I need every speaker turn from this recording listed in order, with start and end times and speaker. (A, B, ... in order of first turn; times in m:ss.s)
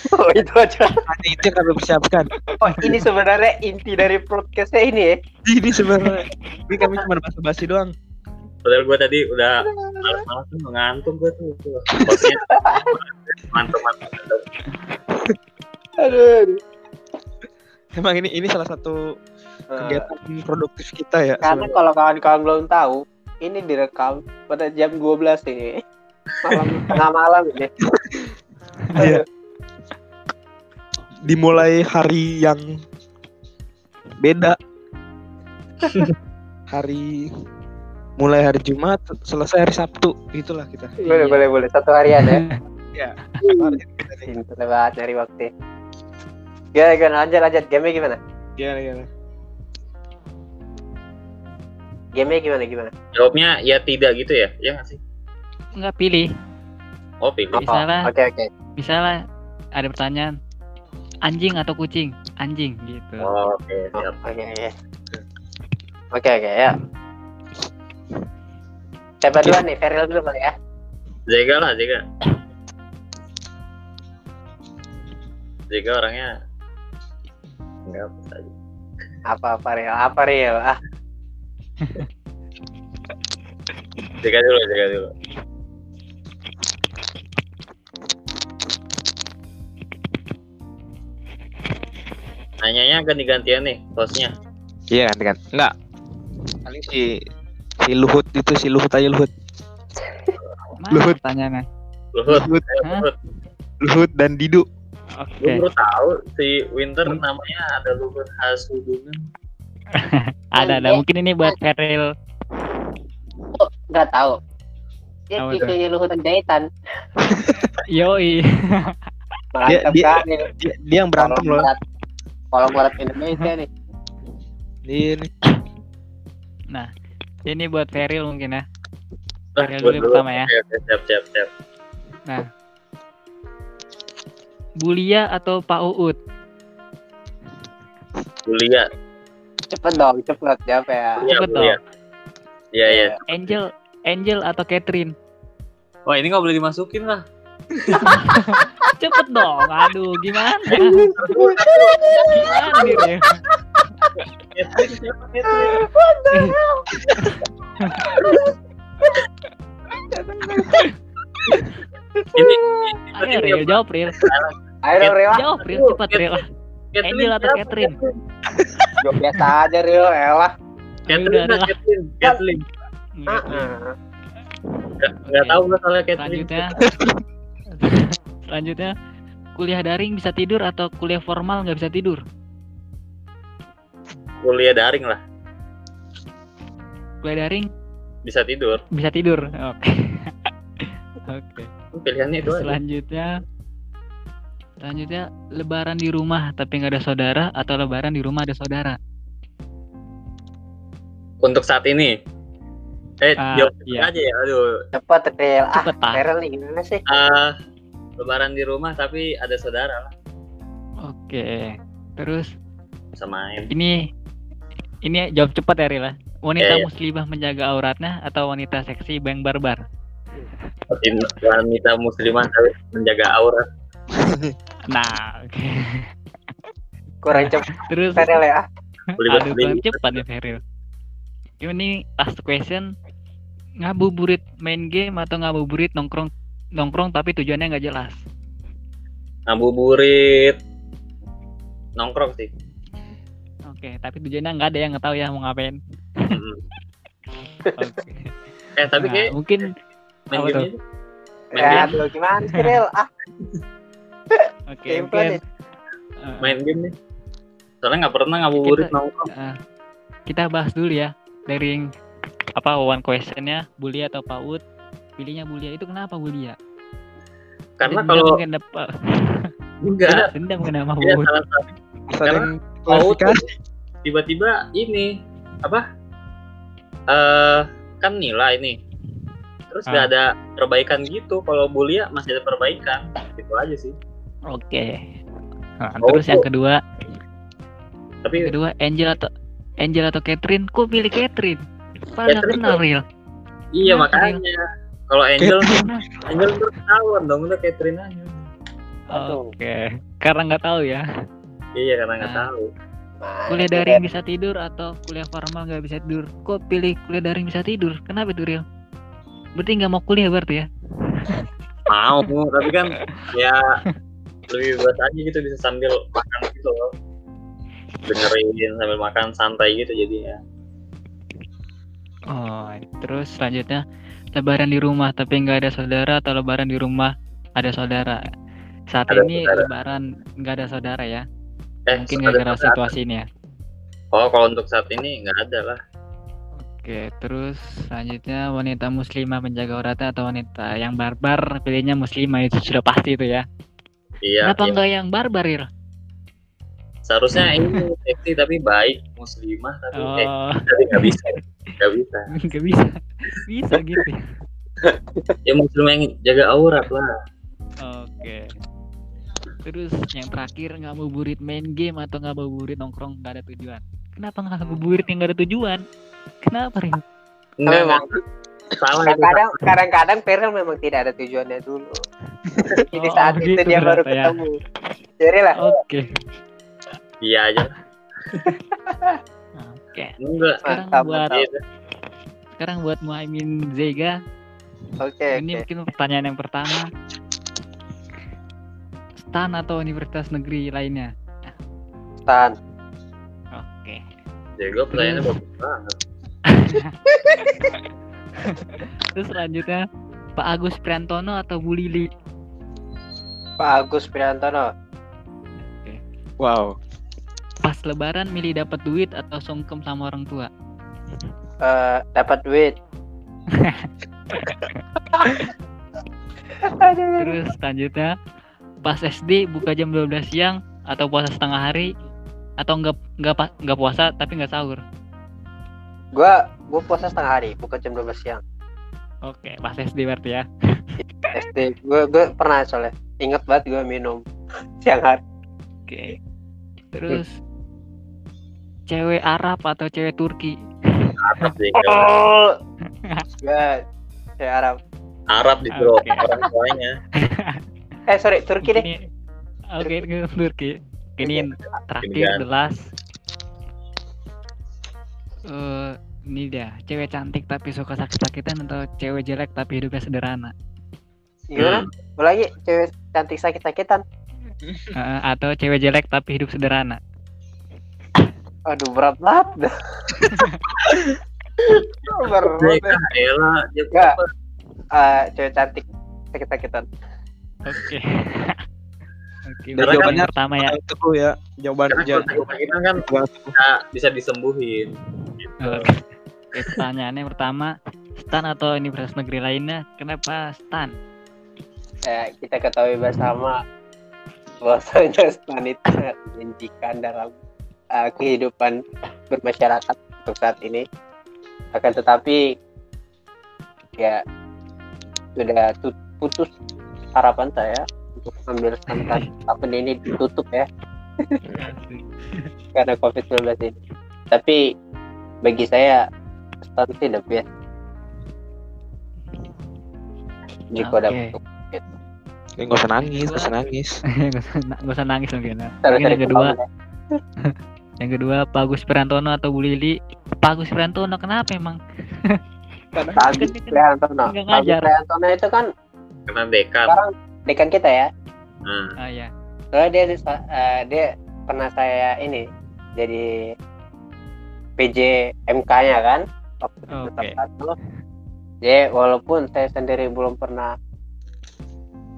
0:00.1-0:01.0 A
0:01.1-0:02.3 B
0:02.6-0:05.1 A
0:05.5-0:07.9 B
0:08.6-0:14.4 C
0:09.8-0:10.0 A
0:12.5-0:12.9 A
0:16.0-0:16.6 A
0:18.0-0:19.0 B
0:19.7-0:20.1 A
0:19.8-0:21.8 B
0:21.4-0:25.8 A
0:26.4-0:27.7 A
0:27.8-0:28.2 B
0:28.9-0:29.2 B
0:29.0-0:29.2 A
0:31.2-0:32.6 B
0:34.2-0:34.6 B
0:36.7-0:37.3 B
0:38.2-0:40.9 B
0:41.0-0:41.4 D
0:41.0-0:42.4 A
0:42.2-0:42.5 D
0:42.9-0:44.3 B
0:43.4-0:45.5 A
0:46.7-0:48.2 A
0:48.6-0:49.1 B
0:52.2-0:52.9 A
0:53.1-0:55.0 C
0:55.8-0:56.3 D
0:57.2-0:57.6 C
0:57.5-0:58.5 A
0:57.6-0:58.1 D
0:58.8-0:59.2 D
0:59.8-1:00.3 D
1:01.2-1:03.3 D
1:03.2-1:04.2 C
1:04.0-1:04.7 A
1:06.1-1:06.8 A
1:09.2-1:10.5 A
1:11.3-1:12.0 C
1:15.7-1:16.3 C
1:17.9-1:18.5 C
1:19.3-1:20.8 A
1:21.8-1:22.1 D
1:24.2-1:25.1 C
1:32.6-1:34.3 C
1:34.9-1:35.7 B
1:36.6-1:37.1 B
1:37.8-1:39.3 B
1:40.8-1:41.6 D
1:40.9-1:41.2 B
1:42.1-1:43.1 C
1:42.3-1:42.6 B
1:43.8-1:44.6 B
1:45.2-1:45.6 D
1:45.4-1:49.2 C
1:49.9-1:52.1 D
1:50.6-1:51.5 A
1:53.5-1:54.4 A
1:55.3-1:56.7 A
1:55.4-1:55.8 D
1:57.3-1:57.8 B
1:57.8-1:59.0 D
1:59.5-2:00.5 A
1:59.7-2:01.7 B
2:01.2-2:01.8 A
2:02.5-2:03.7 A
2:04.9-2:05.3 B
2:07.4-2:08.6 D
2:09.6-2:11.5 C
2:09.6-2:10.5 D
2:14.8-2:16.2 D
2:18.4-2:18.9 C
2:19.7-2:21.2 A
2:21.2-2:21.8 C
2:21.3-2:21.8 D
2:22.7-2:23.6 C
2:22.8-2:23.2 A
2:23.3-2:25.1 D
2:26.1-2:27.2 C
2:28.0-2:31.1 D
2:30.7-2:34.1 A
2:30.8-2:33.0 C
2:32.3-2:33.3 D
2:34.4-2:35.8 C
2:35.5-2:37.2 A
2:37.2-2:38.1 D
2:38.0-2:38.5 A
2:39.9-2:40.9 A
2:42.2-2:42.9 A
2:42.4-2:46.4 C
2:43.1-2:44.2 D
2:44.8-2:45.4 A
2:45.3-2:46.5 D
2:46.9-2:48.1 C
2:47.0-2:48.0 D
2:48.6-2:48.9 B
2:49.0-2:50.5 A
2:51.1-2:51.7 D
2:51.1-2:52.6 C
2:53.2-2:53.7 D
2:53.3-2:53.9 A
2:55.0-2:56.7 C
2:55.3-2:55.6 D
2:56.2-2:56.8 D
2:56.8-2:57.1 B
2:57.7-2:58.9 D
2:59.6-3:02.2 D
3:04.4-3:05.2 C
3:07.2-3:07.7 D
3:08.2-3:08.8 C
3:08.9-3:11.7 D
3:11.9-3:12.8 C
3:12.4-3:13.3 D
3:14.8-3:19.0 D
3:21.4-3:22.1 C
3:23.2-3:24.7 C
3:23.4-3:24.1 D
3:24.9-3:27.0 A
3:25.8-3:26.2 D
3:27.1-3:27.6 C
3:28.2-3:30.1 C
3:31.0-3:32.5 D
3:33.2-3:33.7 C
3:33.7-3:34.0 D
3:35.0-3:39.8 D
3:36.6-3:36.9 C
3:40.9-3:43.6 C
3:44.2-3:44.5 B
3:44.9-3:46.1 D
3:47.2-3:48.6 A
3:47.3-3:48.4 D
3:49.2-3:50.6 D
3:49.2-3:50.2 C
3:51.6-3:52.8 D
3:53.8-3:58.2 D
3:59.5-4:00.6 C
4:02.0-4:02.5 C
4:03.7-4:05.8 D
4:06.3-4:06.6 C
4:07.8-4:08.3 D
4:08.8-4:09.3 C
4:08.9-4:09.7 D
4:10.3-4:10.8 C
4:10.3-4:10.7 D
4:11.5-4:12.0 C
4:11.6-4:13.1 A
4:11.6-4:12.8 D
4:14.7-4:15.4 D
4:14.9-4:15.4 A
4:16.2-4:16.6 D
4:16.4-4:16.9 C
4:17.8-4:19.3 C
4:18.5-4:19.6 D
4:20.3-4:21.8 D
4:22.6-4:24.6 D
4:25.2-4:26.6 D
4:27.8-4:28.4 C
4:27.8-4:29.5 D
4:29.8-4:30.3 C
4:30.1-4:31.3 D
4:31.0-4:31.7 C
4:32.1-4:33.4 B
4:32.2-4:33.4 C
4:34.0-4:35.1 C
4:37.1-4:38.8 C
4:39.7-4:44.0 C
4:44.5-4:45.0 D
4:45.8-4:46.8 D
4:46.0-4:46.4 C
4:48.2-4:48.5 C
4:48.4-4:53.0 D
4:52.2-4:52.8 C
4:53.7-4:55.7 C
4:53.8-4:54.4 D
4:55.4-4:56.2 B
4:55.7-4:56.0 D
4:56.3-4:58.5 C
4:59.1-5:01.0 D
4:59.1-4:59.5 A
5:01.8-5:02.7 C
5:02.2-5:02.5 D
5:03.2-5:04.0 A
5:03.5-5:08.6 D
5:09.6-5:11.4 D
5:11.9-5:13.6 C
5:14.5-5:16.9 C
5:18.0-5:20.4 C
5:22.3-5:23.8 D
5:24.3-5:28.2 D
5:28.9-5:31.2 D
5:29.1-5:29.7 C
5:31.9-5:32.9 C
5:31.9-5:33.3 D
5:34.1-5:35.8 C
5:36.6-5:43.4 D
5:44.2-5:44.8 C
5:44.4-5:45.7 D
5:47.0-5:52.3 C
5:47.6-5:47.8 D
5:50.0-5:51.3 D
5:52.4-5:54.3 D
5:55.4-5:57.1 C
5:57.8-5:58.5 D
5:59.6-6:05.8 D
6:06.4-6:07.0 D
6:07.6-6:08.1 C
6:07.6-6:08.2 A
6:08.7-6:09.5 C
6:09.0-6:12.0 A
6:12.6-6:14.6 A
6:12.7-6:14.4 D
6:15.2-6:15.7 A
6:15.6-6:16.2 D
6:17.2-6:17.8 C
6:18.8-6:19.2 A
6:19.6-6:20.1 D
6:20.2-6:20.6 C
6:20.6-6:21.3 D
6:20.7-6:21.4 A
6:21.3-6:21.6 C
6:22.6-6:24.1 D
6:25.0-6:25.6 A
6:25.3-6:26.9 D
6:29.2-6:31.1 D
6:32.2-6:32.5 A
6:33.5-6:34.0 D
6:34.6-6:36.0 C
6:34.9-6:35.3 D
6:36.5-6:36.9 D
6:37.2-6:37.7 A
6:38.4-6:39.8 D
6:40.4-6:42.1 D
6:43.6-6:44.7 A
6:46.4-6:46.7 B
6:47.6-6:50.5 D
6:51.6-6:52.7 A
6:53.6-6:55.5 D
6:56.6-6:57.4 A
6:57.2-6:58.1 D
6:58.8-7:01.9 D
7:02.6-7:04.8 D
7:06.1-7:08.4 A
7:09.2-7:10.9 D
7:11.3-7:14.2 A
7:14.8-7:15.2 A
7:15.9-7:16.2 D
7:16.9-7:17.4 D
7:18.9-7:21.5 D
7:21.2-7:22.1 C
7:21.8-7:22.5 A
7:23.4-7:23.8 A
7:24.4-7:24.8 A
7:25.3-7:27.0 C
7:25.7-7:26.2 D
7:27.2-7:27.6 D
7:28.1-7:28.8 A
7:28.6-7:29.1 D
7:29.7-7:32.8 D
7:29.8-7:30.0 A
7:31.2-7:31.7 A
7:32.0-7:32.4 C
7:35.5-7:40.5 D
7:41.5-7:44.0 A
7:41.6-7:41.8 C
7:44.6-7:44.9 B
7:44.9-7:47.0 D
7:48.7-7:50.2 A
7:50.2-7:50.6 D
7:50.8-7:51.2 B
7:51.6-7:53.0 A
7:52.3-7:54.3 C
7:53.9-7:54.2 A
7:54.9-7:56.8 A
7:57.6-7:58.6 D
7:59.5-8:00.8 D
7:59.8-8:00.2 C
7:59.8-8:02.4 B
8:01.9-8:05.9 C
8:02.0-8:02.5 D
8:03.1-8:03.5 B
8:05.6-8:11.0 D
8:12.1-8:13.6 A
8:14.6-8:17.3 A
8:17.9-8:18.8 A
8:19.3-8:20.8 A
8:21.7-8:22.4 A
8:25.4-8:26.5 A
8:27.1-8:30.7 A
8:28.9-8:29.3 D
8:31.4-8:31.7 B
8:31.6-8:32.5 D
8:32.7-8:33.8 A
8:34.3-8:34.6 A
8:35.4-8:36.0 A
8:36.7-8:37.5 A
8:40.7-8:41.8 A
8:40.8-8:41.3 D
8:42.6-8:44.0 B
8:43.0-8:43.5 D
8:44.2-8:46.5 D
8:45.8-8:46.6 A
8:47.4-8:52.4 D
8:53.0-8:54.9 D
8:53.2-8:55.6 A
8:56.3-8:56.9 C
8:56.9-8:58.1 A
8:58.6-8:58.9 C
8:59.0-8:59.3 D
8:59.7-9:02.4 A
9:03.0-9:03.2 A
9:04.8-9:07.7 A
9:06.9-9:07.4 D
9:08.6-9:10.7 A